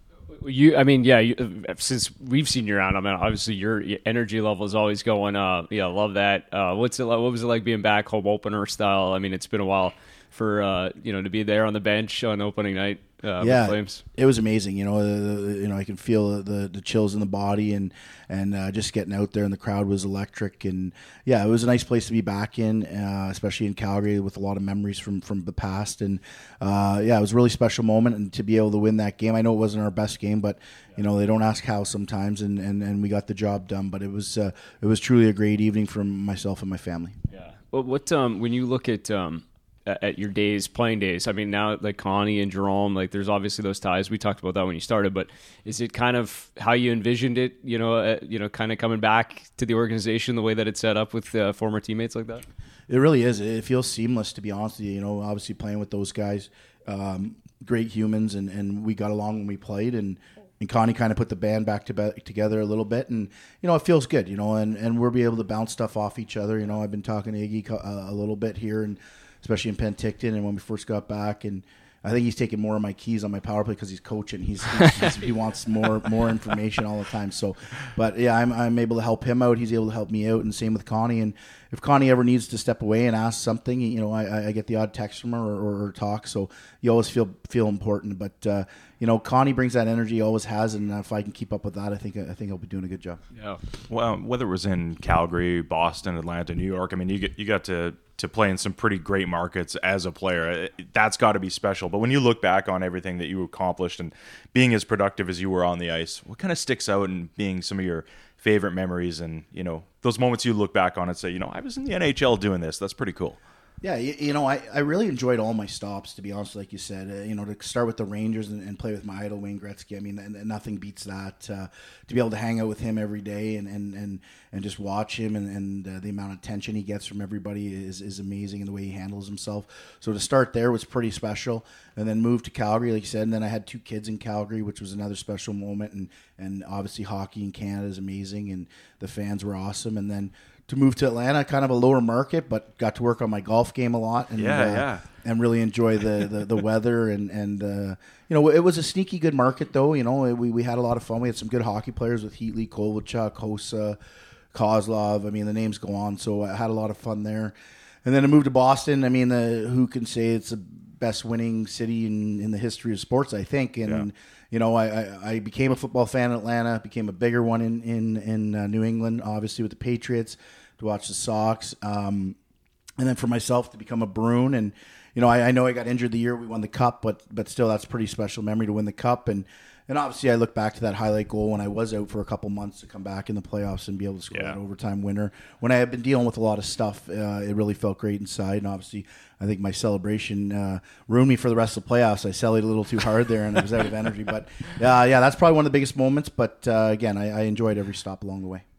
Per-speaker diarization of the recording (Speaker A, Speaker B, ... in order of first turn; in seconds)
Speaker A: 0.3-14.0, 37.3-52.4, 93.3-93.6, 184.3-184.6
Speaker B: 13.4-37.2, 52.9-93.2, 113.8-154.0, 154.5-172.4, 173.0-198.6
Speaker C: 93.9-113.4, 144.4-145.0